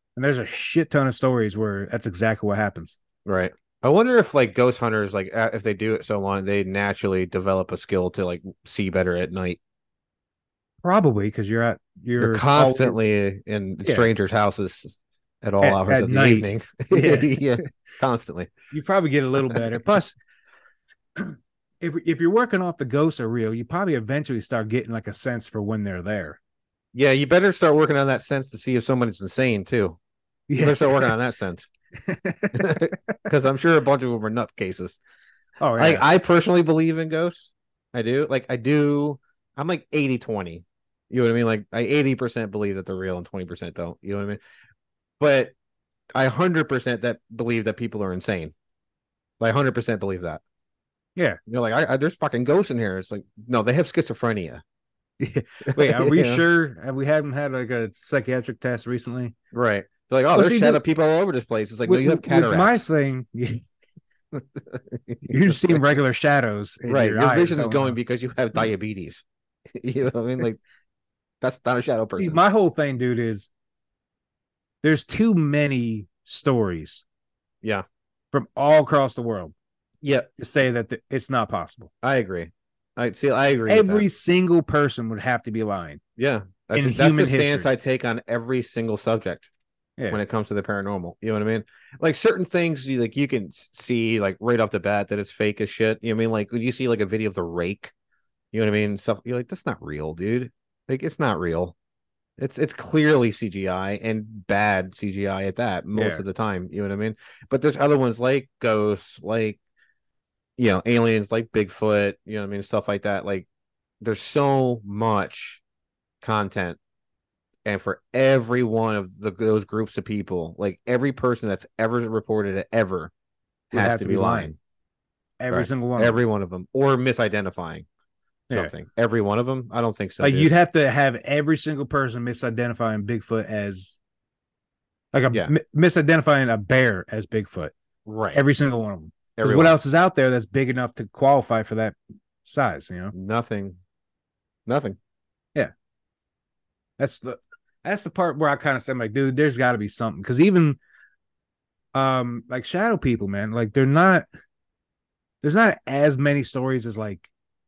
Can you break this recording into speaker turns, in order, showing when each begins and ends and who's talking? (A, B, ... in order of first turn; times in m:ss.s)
0:00.2-0:03.0 A
0:03.2-0:09.6 B
0:10.8-0:13.1 A
0:12.2-0:18.5 B
0:13.8-0:14.1 A
0:15.6-0:17.4 A
0:18.7-0:20.2 A
0:21.2-0:26.4 A
0:26.9-0:30.0 B
0:30.5-0:31.1 A
0:30.6-0:31.7 B
0:32.0-0:33.0 A
0:32.5-0:35.0 B
0:35.6-0:36.0 A
0:35.8-0:44.4 B
0:45.2-0:45.5 B
0:46.1-0:48.5 B
0:49.4-0:50.4 B
0:51.5-0:54.6 B
0:55.2-0:59.3 A
0:55.6-0:56.4 B
0:59.5-1:02.9 B
1:00.3-1:00.8 A
1:01.8-1:03.6 A
1:04.3-1:05.8 B
1:05.2-1:08.0 A
1:06.8-1:10.6 B
1:11.4-1:12.4 B
1:12.2-1:13.5 A
1:14.8-1:17.0 A
1:18.3-1:19.5 A
1:20.0-1:20.3 B
1:20.4-1:21.9 A
1:22.0-1:24.0 B
1:23.7-1:26.0 A
1:26.2-1:29.5 B
1:26.7-1:27.7 A
1:30.1-1:37.9 B
1:38.5-1:41.8 B
1:42.4-1:49.6 B
1:45.9-1:46.2 A
1:50.6-1:53.5 B
1:54.0-1:55.6 B
1:56.2-1:56.8 B
1:57.6-2:03.1 B
2:03.7-2:04.6 B
2:03.7-2:04.5 A
2:05.4-2:06.2 A
2:05.5-2:07.8 B
2:08.5-2:10.5 B
2:10.2-2:14.0 A
2:15.1-2:17.7 A
2:18.0-2:18.4 B
2:18.3-2:23.1 A
2:19.4-2:19.8 B
2:23.1-2:23.8 B
2:24.6-2:25.0 B
2:27.0-2:30.8 A
2:31.9-2:34.2 A
2:35.4-2:37.3 A